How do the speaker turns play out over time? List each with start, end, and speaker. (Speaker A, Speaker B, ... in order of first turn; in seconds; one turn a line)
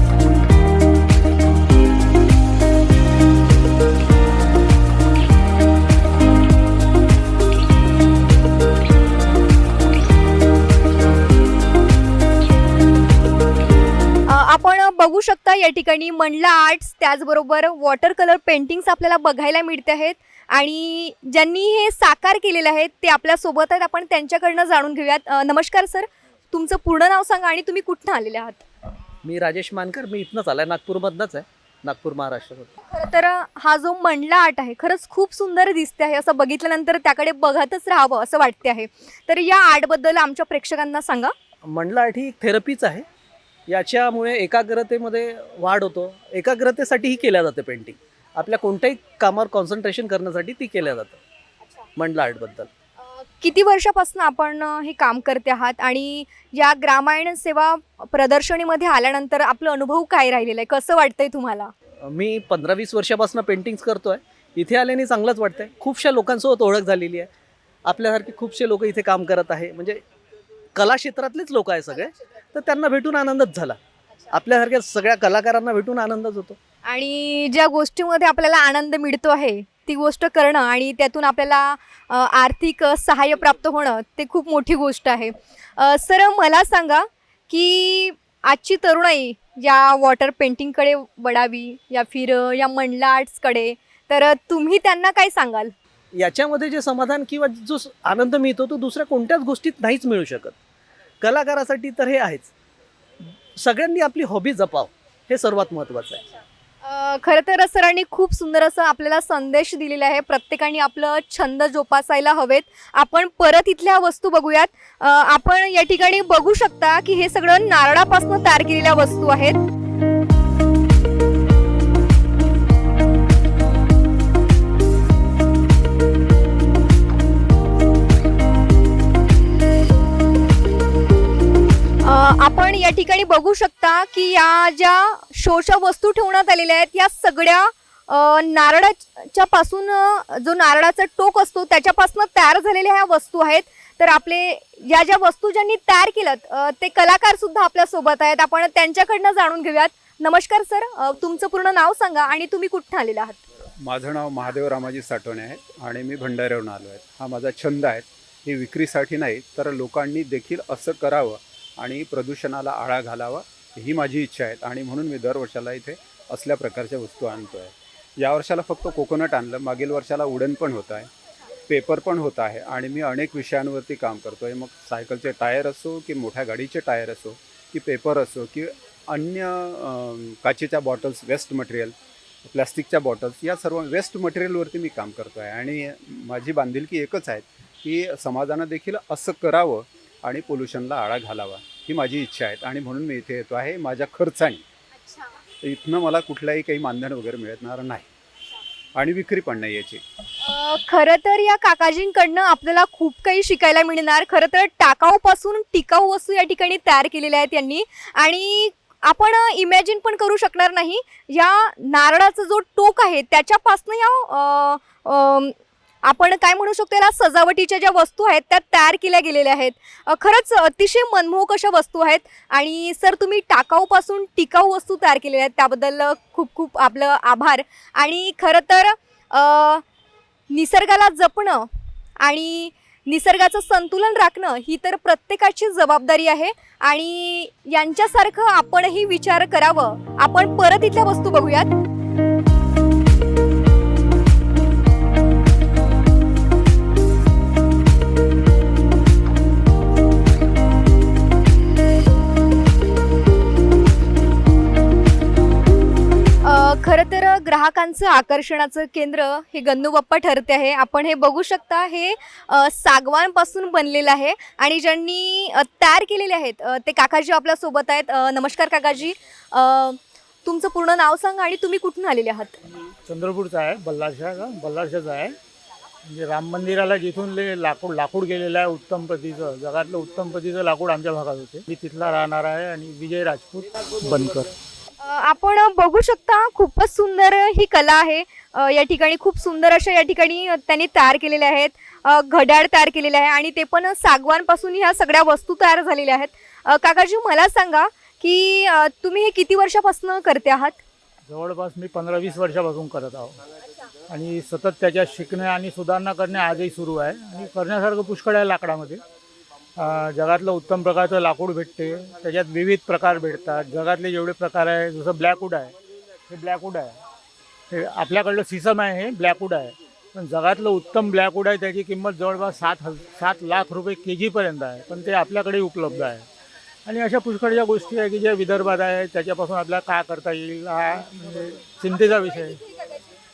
Speaker A: 14.3-28.6
Speaker B: 29.2-32.7
Speaker A: 32.8-41.3
Speaker B: 41.6-43.0
Speaker B: 43.7-51.2
Speaker B: 52.0-52.7
Speaker A: 53.4-61.7
Speaker B: 62.0-67.3
Speaker B: 67.8-70.0
Speaker B: 70.8-73.8
Speaker B: 74.3-76.6
Speaker A: 76.8-95.7
Speaker B: 96.1-100.5
Speaker B: 101.2-102.5
Speaker B: 103.6-106.2
Speaker A: 106.8-119.6
Speaker A: 132.0-153.4
Speaker C: 153.8-171.1
Speaker C: 171.7-194.6
Speaker A: 195.0-195.3
Speaker C: 195.6-198.1
Speaker C: 198.9-200.0
Speaker A: 200.4-229.8
Speaker A: 230.5-231.7
Speaker A: 232.2-241.7
Speaker A: 256.4-272.6
Speaker D: 273.1-275.3
Speaker D: 276.0-284.5
Speaker A: 285.0-300.8
Speaker D: 301.3-303.4
Speaker D: 304.1-309.0
Speaker D: 309.8-315.7
Speaker D: 316.3-317.0
Speaker D: 317.7-326.2
Speaker D: 326.9-332.6
Speaker A: 332.6-333.0